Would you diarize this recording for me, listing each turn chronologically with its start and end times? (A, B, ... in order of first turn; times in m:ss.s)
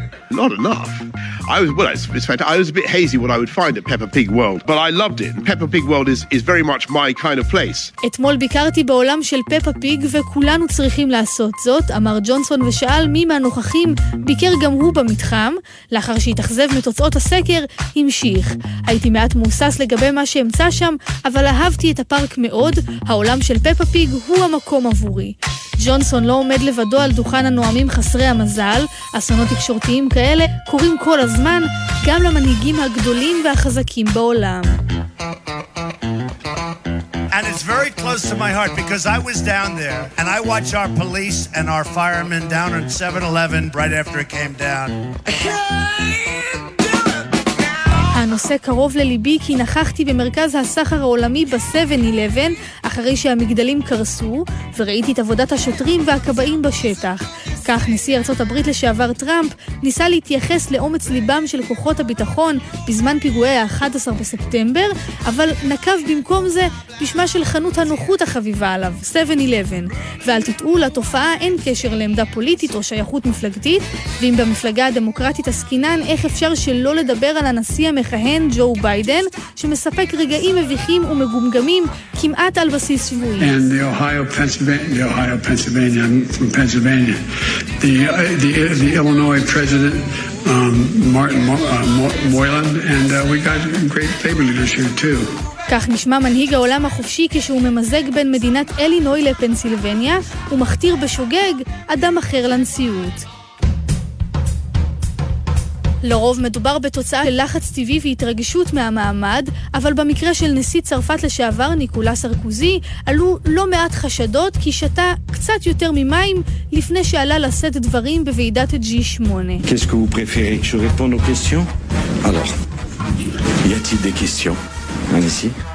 0:00.3-0:07.9 A
0:08.0-0:34.8 B
0:37.3-0:44.9 C
0:48.1-1:23.6 B
1:23.4-1:27.2 D
1:27.8-1:35.3 D
1:35.7-1:43.2 B
1:46.0-1:59.6 B
1:59.6-2:01.6 E
2:02.2-2:02.5 E
2:03.7-2:04.5 E
2:05.1-2:05.5 E